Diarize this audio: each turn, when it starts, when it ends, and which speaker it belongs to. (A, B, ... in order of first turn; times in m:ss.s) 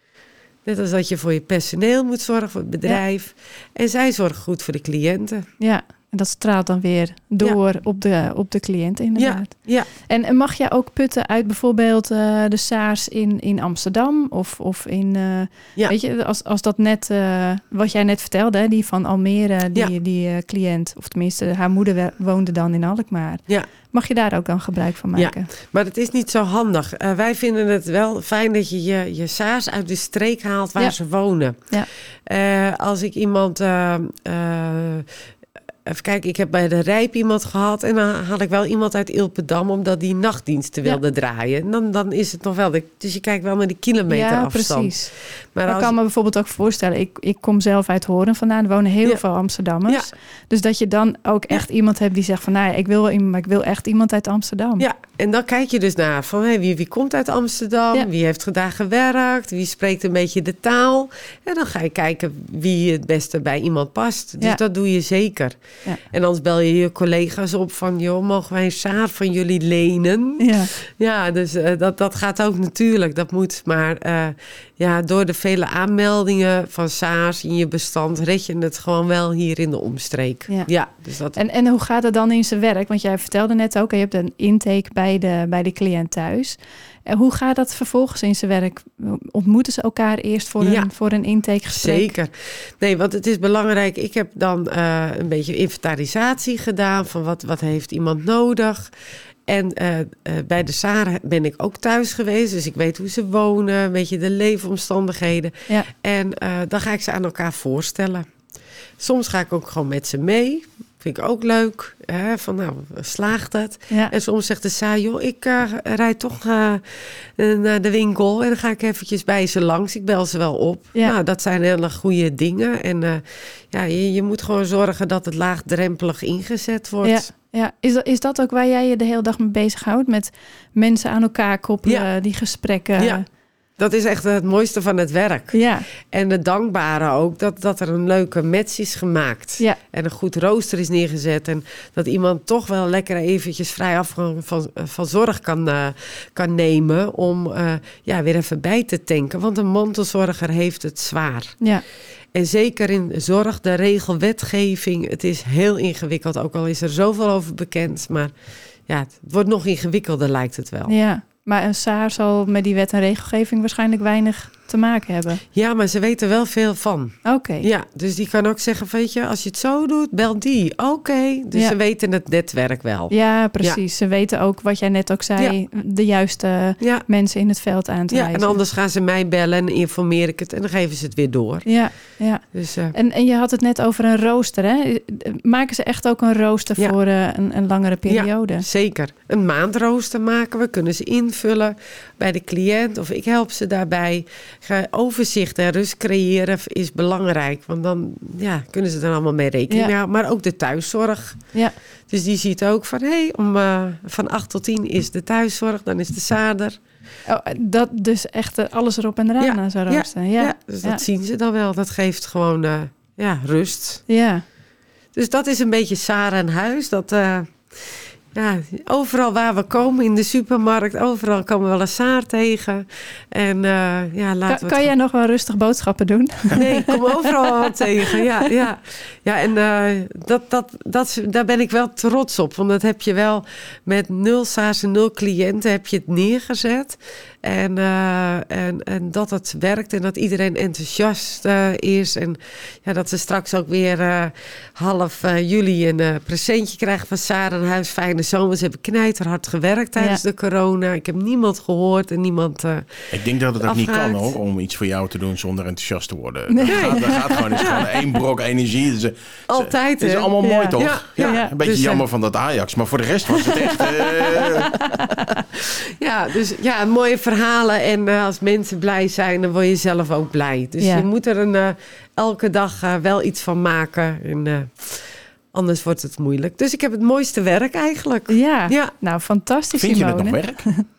0:00.6-0:05.4 A
0:05.6-0:25.5 B
0:09.2-0:09.9 A
0:25.2-0:31.7 A
0:32.3-0:35.1 A
0:35.8-0:45.9 A
0:44.1-0:45.1 B
0:45.7-0:54.8 B
0:49.8-0:50.1 A
0:54.8-1:05.6 A
1:06.1-1:21.4 A
1:10.4-1:10.7 B
1:21.3-1:32.1 B
1:30.6-1:30.9 A
1:31.7-1:38.9 A
1:39.5-1:48.2 A
1:49.0-2:07.3 A
2:07.0-2:13.2 B
2:13.0-2:13.2 A
2:13.8-2:31.6 A
2:15.5-2:15.9 B
2:32.3-2:38.3 A
2:38.9-2:40.9 A
2:40.9-2:45.4 B
2:45.5-2:53.8 A
2:47.2-2:47.7 B
2:53.1-2:58.6 B
2:56.8-2:57.0 A
2:58.1-3:01.7 A
3:01.6-3:08.6 B
3:02.5-3:02.9 A
3:08.1-3:21.4 A
3:22.1-3:26.8 A
3:27.2-3:31.0 B
3:29.4-3:34.0 A
3:34.1-3:34.4 B
3:35.1-3:44.9 A
3:44.5-3:48.2 B
3:46.5-4:13.0 A
4:13.1-4:25.1 C
4:13.6-4:14.3 A
4:16.5-4:17.8 B
4:16.7-4:17.8 A
4:19.5-4:22.0 A
4:20.4-4:21.5 B
4:23.4-4:25.4 B
4:25.6-4:38.9 A
4:30.8-4:31.0 B
4:38.3-4:40.8 B
4:39.7-4:40.7 C